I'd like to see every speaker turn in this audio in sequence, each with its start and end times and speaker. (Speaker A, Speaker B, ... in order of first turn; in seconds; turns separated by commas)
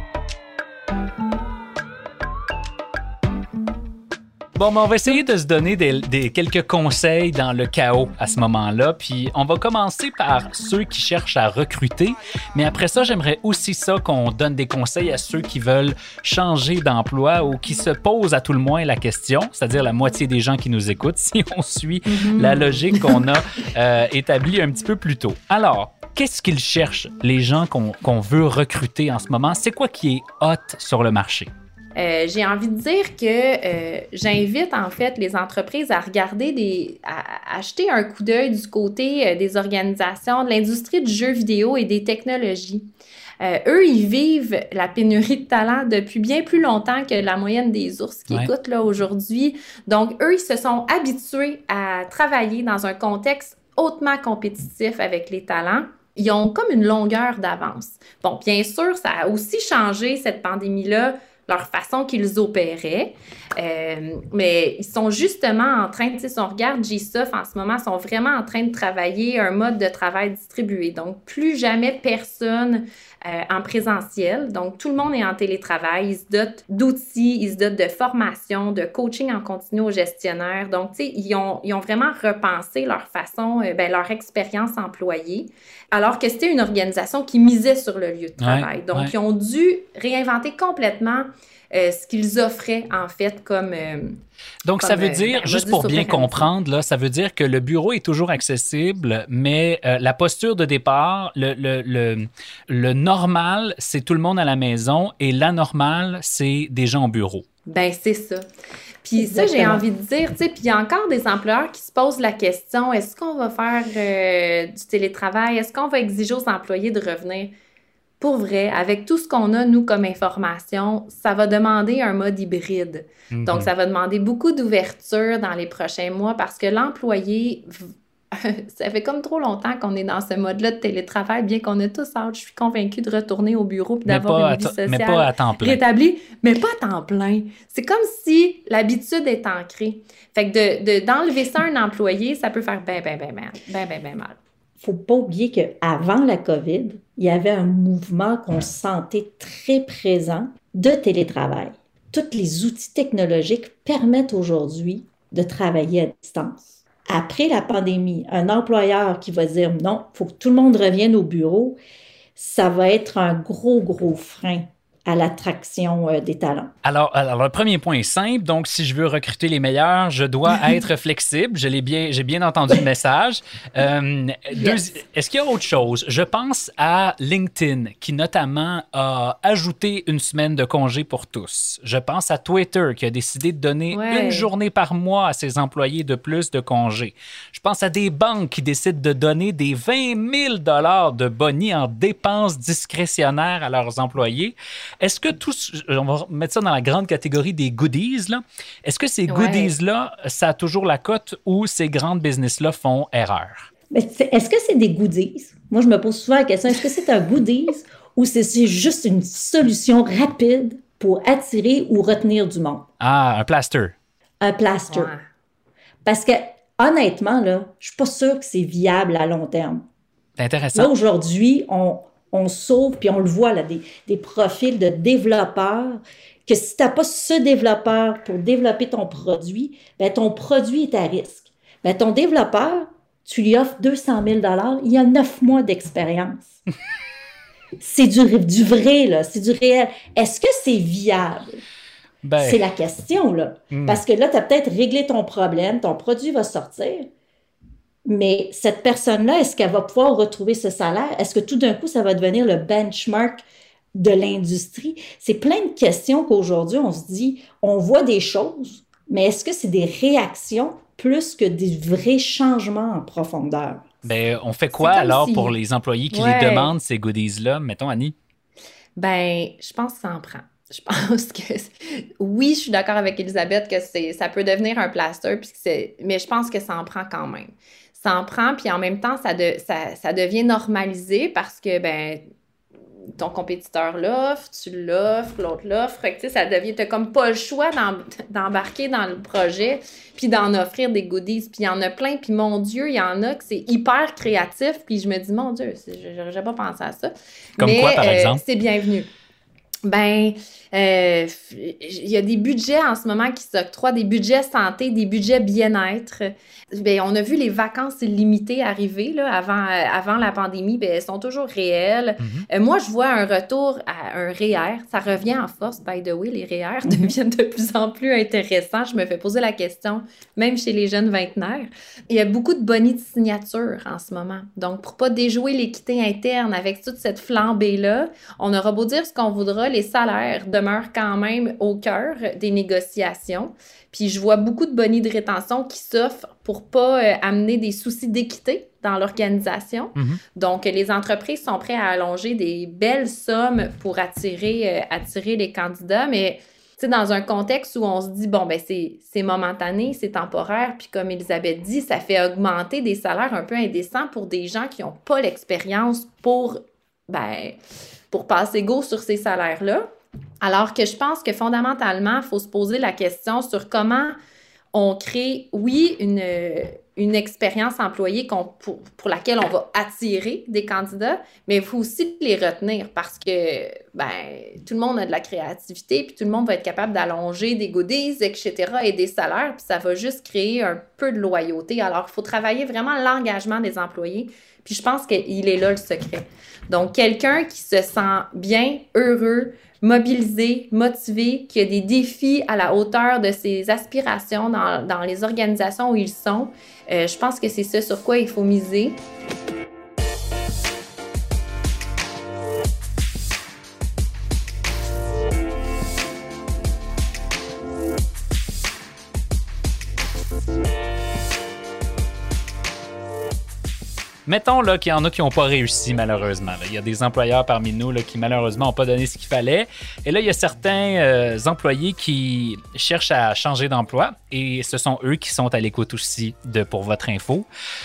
Speaker A: 4.5-31.5, Speaker B: 22.1-23.2, Speaker B: 31.9-42.9, Speaker B: 43.4-94.2, Speaker A: 88.4-89.1, Speaker A: 94.6-107.4, Speaker B: 94.8-96.5, Speaker B: 107.7-108.5, Speaker B: 109.0-117.5, Speaker C: 109.2-109.8, Speaker B: 118.2-144.4, Speaker A: 123.3-123.7, Speaker A: 134.1-135.8, Speaker C: 144.8-161.8, Speaker C: 162.4-166.7, Speaker A: 166.8-203.7, Speaker B: 183.9-184.5, Speaker B: 199.3-199.7, Speaker C: 203.9-212.9, Speaker A: 213.0-213.9, Speaker C: 214.4-215.1, Speaker B: 214.9-215.2, Speaker C: 216.0-219.8, Speaker A: 220.4-220.9, Speaker C: 220.7-236.6, Speaker C: 237.8-241.6, Speaker A: 242.2-242.6, Speaker C: 242.4-247.1, Speaker A: 243.7-244.0, Speaker C: 248.1-263.9, Speaker A: 264.0-268.1, Speaker B: 264.8-265.5, Speaker B: 266.1-266.7, Speaker B: 269.0-282.2, Speaker B: 283.2-299.1, Speaker A: 297.6-298.4, Speaker B: 299.8-357.6, Speaker A: 312.2-312.4, Speaker A: 339.9-340.2, Speaker B: 358.1-359.9, Speaker B: 360.4-364.1, Speaker B: 364.7-399.0, Speaker A: 414.2-427.4